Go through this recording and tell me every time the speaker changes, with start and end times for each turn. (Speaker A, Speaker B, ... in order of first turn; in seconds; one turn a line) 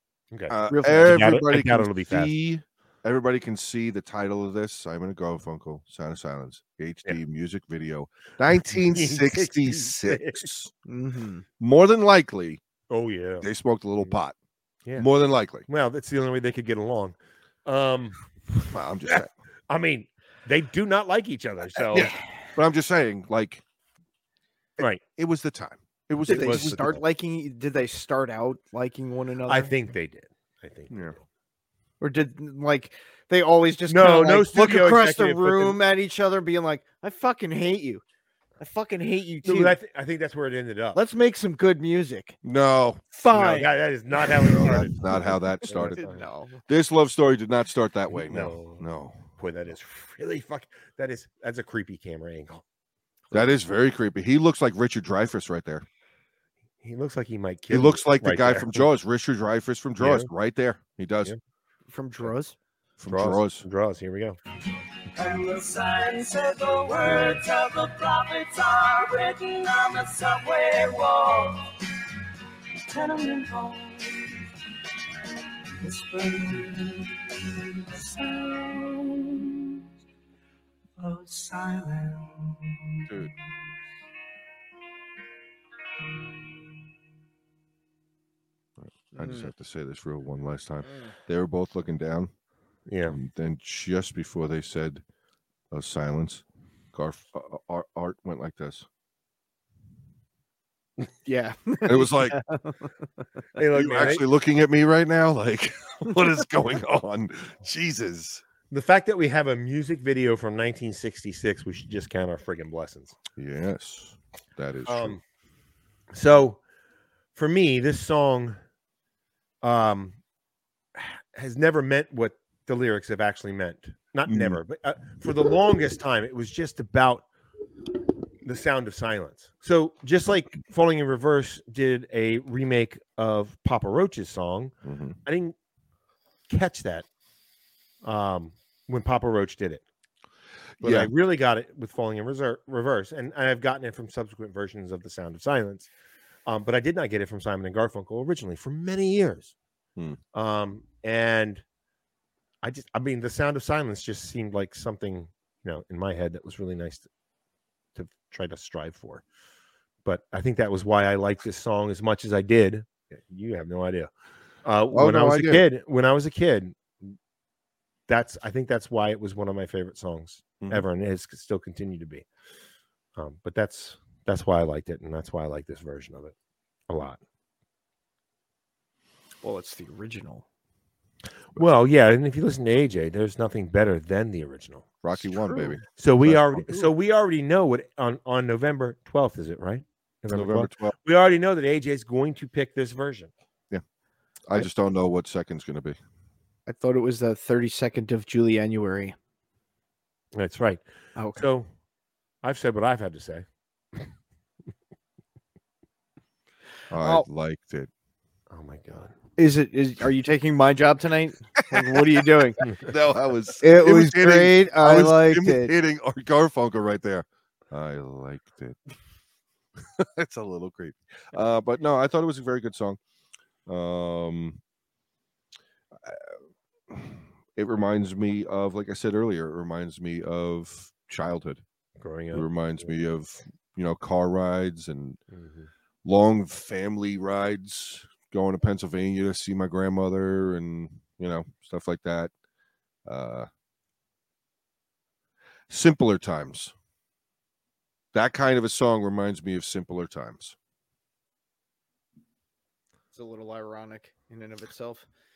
Speaker A: 0.3-2.3
Speaker B: 0.5-10.7
Speaker C: 0.7-1.1
Speaker A: 8.9-10.5
Speaker C: 10.9-11.4
Speaker B: 11.6-12.6
Speaker A: 12.9-13.4
Speaker B: 13.4-14.4
Speaker B: 14.9-15.7
Speaker A: 15.7-18.2
Speaker B: 18.7-19.3
Speaker A: 19.1-22.1
Speaker B: 21.9-23.6
Speaker B: 24.8-26.9
Speaker A: 26.2-27.0
Speaker C: 26.3-29.7
Speaker A: 29.4-31.2
Speaker B: 30.9-31.1
Speaker C: 32.0-38.0
Speaker A: 33.9-35.8
Speaker C: 38.6-39.8
Speaker A: 39.4-41.0
Speaker C: 40.9-42.4
Speaker B: 42.4-43.0
Speaker C: 43.1-43.7
Speaker A: 43.3-46.2
Speaker C: 44.4-44.8
Speaker B: 44.5-46.0
Speaker C: 45.8-46.6
Speaker B: 46.7-49.3
Speaker A: 48.1-52.6
Speaker B: 53.3-55.8
Speaker A: 56.8-58.8
Speaker B: 57.7-61.3
Speaker A: 60.0-60.3
Speaker C: 61.9-62.5
Speaker B: 63.0-63.7
Speaker A: 63.1-64.4
Speaker D: 65.1-71.8
Speaker D: 72.8-74.5
Speaker D: 75.8-79.8
Speaker D: 81.0-83.3
Speaker B: 88.8-92.3
Speaker C: 89.2-89.5
Speaker A: 92.8-93.2
Speaker B: 93.0-95.0
Speaker B: 95.7-98.8
Speaker C: 101.2-102.9
Speaker B: 101.8-102.4
Speaker A: 103.6-104.2
Speaker B: 103.7-108.4
Speaker A: 108.7-113.2
Speaker B: 113.4-115.2
Speaker A: 114.9-115.2
Speaker A: 116.1-116.6
Speaker A: 117.3-118.6
Speaker A: 119.6-120.2
Speaker A: 120.9-127.3
Speaker B: 124.2-124.6
Speaker A: 128.4-134.7
Speaker B: 134.8-135.2
Speaker A: 135.2-135.6
Speaker A: 136.5-137.1
Speaker A: 138.0-139.8
Speaker B: 140.8-141.1
Speaker A: 140.8-145.9
Speaker A: 146.4-149.5
Speaker A: 150.3-151.6
Speaker A: 152.6-157.1
Speaker A: 157.9-159.2
Speaker A: 160.0-164.1
Speaker A: 164.6-167.2
Speaker B: 164.9-165.7
Speaker A: 168.1-172.2
Speaker A: 173.2-176.3
Speaker A: 176.9-177.2
Speaker C: 179.4-180.4
Speaker A: 181.5-184.9
Speaker B: 185.0-186.7
Speaker C: 185.3-185.8
Speaker A: 185.9-193.3
Speaker B: 190.3-190.9
Speaker B: 194.4-196.0
Speaker C: 196.7-199.2
Speaker A: 200.3-200.8
Speaker C: 201.2-201.5
Speaker A: 201.3-201.7
Speaker A: 202.4-203.4
Speaker B: 206.9-207.9
Speaker A: 208.5-209.1
Speaker C: 209.4-212.7
Speaker B: 212.8-218.9
Speaker C: 213.6-215.7
Speaker B: 219.8-223.0
Speaker B: 223.7-224.6
Speaker B: 226.0-226.3
Speaker B: 226.9-231.6
Speaker A: 232.0-232.9
Speaker B: 232.3-235.2
Speaker A: 235.3-235.7
Speaker B: 236.0-242.3
Speaker B: 243.1-243.5
Speaker B: 245.7-246.7
Speaker B: 248.1-250.6
Speaker C: 253.1-255.1